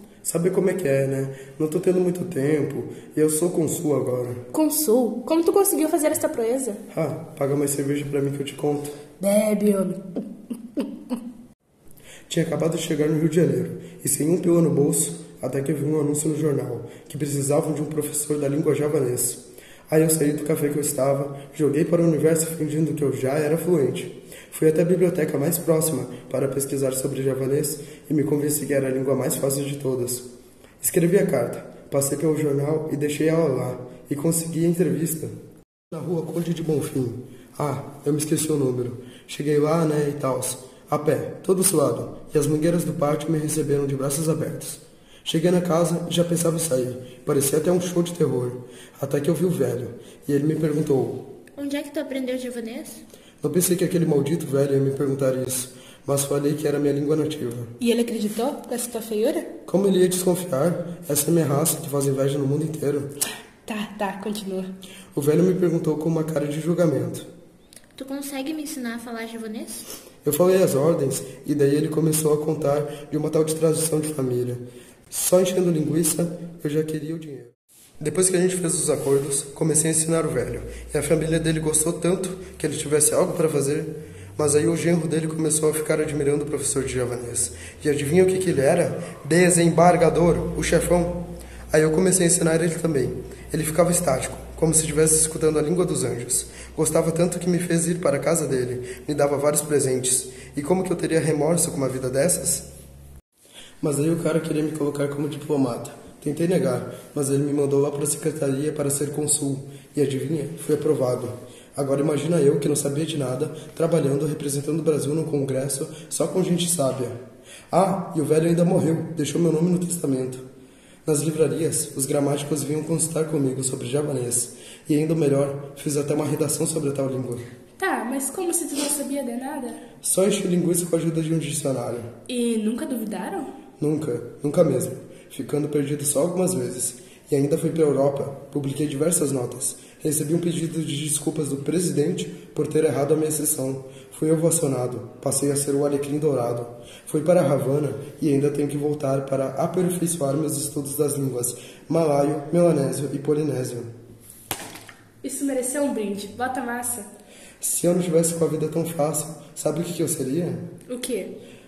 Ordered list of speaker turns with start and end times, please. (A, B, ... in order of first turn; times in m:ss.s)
0:00.2-0:04.4 A
0:04.5-0:06.8 B
0:06.9-0:09.0 A
0:09.2-0:10.2 B
0:12.3-0:30.2 A
0:30.8-0:35.3 A
0:35.9-0:51.3 A
0:51.6-0:53.0 C
0:53.4-0:57.7 A
0:57.8-0:59.5 B
0:59.6-1:03.1 A
1:03.6-1:04.7 B
1:05.1-1:07.2 A
1:08.0-1:09.8 C
1:10.2-1:42.6 A
1:43.8-1:57.2 A
1:57.7-2:00.4 A
2:01.0-2:07.5 A
2:07.8-2:09.8 B
2:10.0-2:12.1 A
2:12.3-2:13.5 B
2:13.8-2:33.9 A
2:35.2-2:37.1 B
2:37.6-2:40.6 A
2:40.9-2:41.3 B